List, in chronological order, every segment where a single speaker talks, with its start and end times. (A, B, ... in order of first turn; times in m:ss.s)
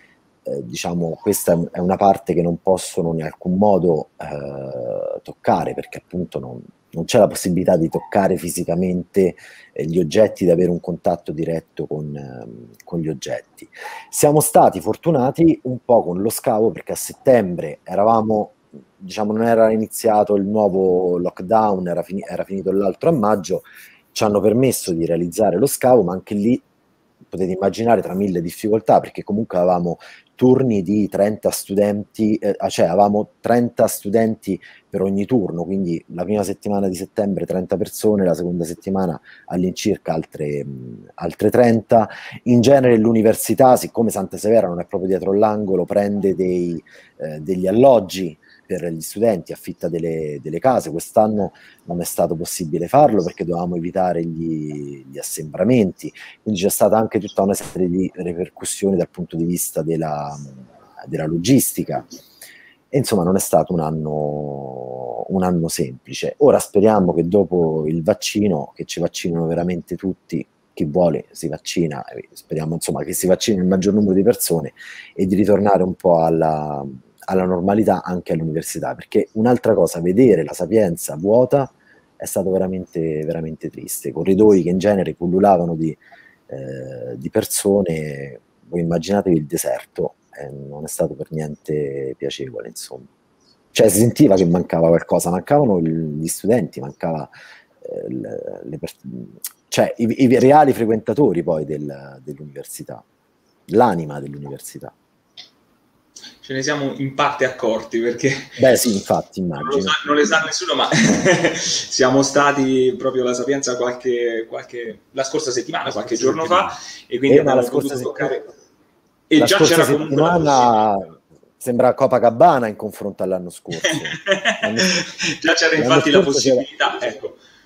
0:00.4-0:26.6 A
0:27.3-1:02.1 A
1:02.9-1:33.1 A
1:33.7-1:43.0 A
1:43.7-1:44.9 A
1:46.4-1:48.7 B
1:48.6-1:50.0 A
1:49.6-1:58.5 B
1:56.0-1:56.7 A
1:57.3-1:58.4 A
1:59.3-2:00.8 B
1:59.4-2:04.9 A
2:03.8-2:07.4 B
2:05.8-2:06.6 A